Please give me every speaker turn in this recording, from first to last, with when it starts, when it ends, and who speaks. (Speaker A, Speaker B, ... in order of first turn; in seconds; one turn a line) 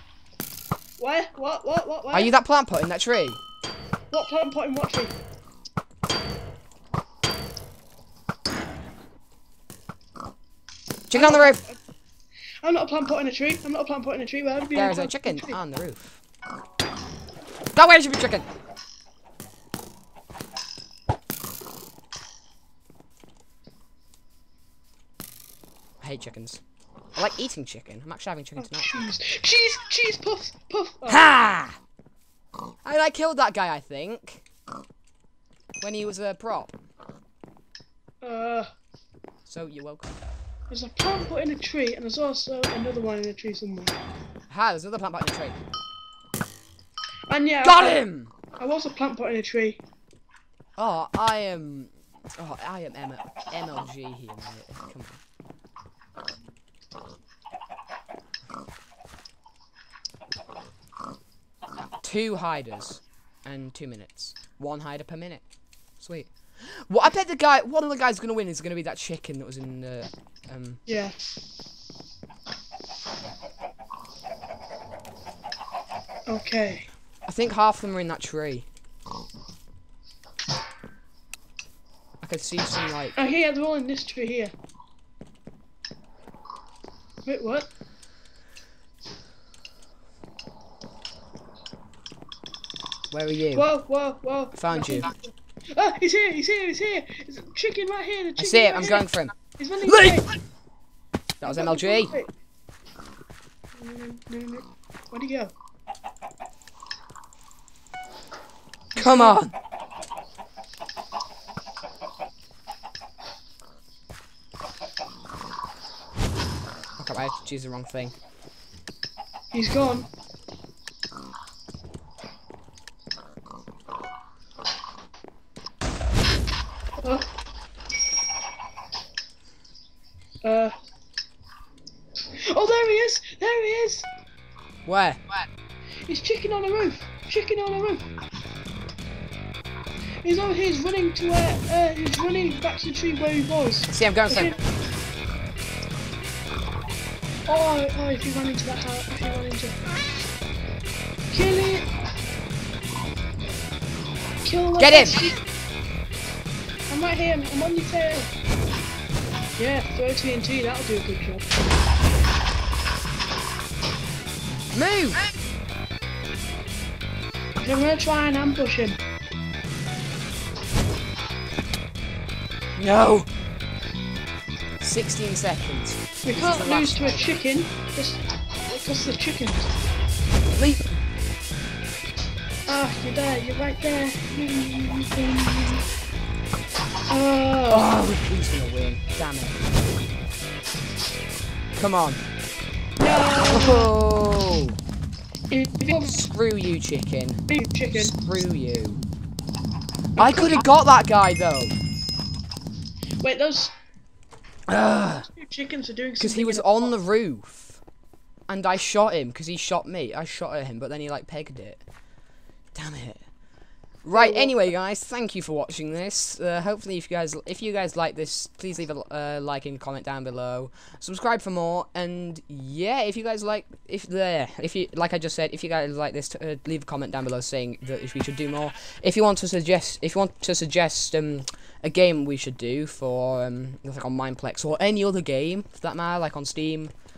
Speaker A: 1.0-2.3
Speaker B: 2.1-3.4
Speaker A: 4.1-5.2
Speaker B: 11.1-11.6
Speaker A: 11.1-11.8
Speaker A: 12.6-15.6
Speaker B: 14.7-16.2
Speaker B: 17.7-18.4
Speaker B: 26.0-26.6
Speaker B: 27.1-29.0
Speaker A: 28.6-31.3
Speaker B: 31.1-31.8
Speaker B: 32.8-34.4
Speaker B: 35.8-36.7
Speaker A: 38.2-38.7
Speaker B: 39.5-40.1
Speaker A: 40.7-43.9
Speaker B: 44.5-45.6
Speaker A: 47.3-48.0
Speaker B: 47.6-48.3
Speaker A: 48.6-49.8
Speaker B: 50.8-55.2
Speaker B: 62.0-65.4
Speaker B: 66.0-70.8
Speaker A: 70.9-71.1
Speaker A: 76.3-76.9
Speaker B: 77.2-78.7
Speaker B: 82.2-83.1
Speaker A: 83.1-84.5
Speaker A: 87.2-87.7
Speaker B: 93.1-93.7
Speaker A: 93.5-100.3
Speaker B: 94.6-95.1
Speaker B: 98.4-99.3
Speaker B: 99.8-100.3
Speaker B: 101.4-102.1
Speaker A: 101.4-102.3
Speaker A: 103.8-105.5
Speaker A: 108.9-109.4
Speaker B: 109.0-109.5
Speaker B: 117.0-118.1
Speaker A: 119.5-120.1
Speaker A: 127.0-127.2
Speaker A: 130.4-130.7
Speaker A: 132.4-134.1
Speaker B: 134.8-135.2
Speaker A: 136.1-138.1
Speaker A: 140.2-144.6
Speaker B: 143.9-144.6
Speaker A: 147.5-149.8
Speaker A: 151.3-151.9
Speaker A: 154.4-155.3
Speaker B: 154.8-155.3
Speaker A: 156.9-158.3
Speaker A: 159.6-161.4
Speaker B: 164.7-165.2
Speaker A: 167.6-169.0
Speaker B: 172.8-173.3
Speaker B: 174.8-177.4
Speaker A: 176.2-179.7
Speaker B: 180.5-181.0
Speaker A: 182.7-185.8
Speaker A: 187.1-188.0
Speaker B: 187.7-189.6
Speaker B: 191.8-192.2
Speaker A: 193.0-193.9
Speaker B: 193.4-194.8
Speaker A: 195.5-196.2
Speaker B: 195.9-199.0
Speaker A: 197.5-198.2
Speaker B: 200.2-201.7
Speaker A: 200.2-200.6
Speaker A: 203.2-203.7
Speaker B: 204.7-205.3
Speaker A: 205.2-206.9
Speaker B: 206.2-207.8
Speaker B: 208.5-211.8
Speaker B: 212.7-213.2
Speaker B: 214.0-236.9
Speaker A: 214.1-214.6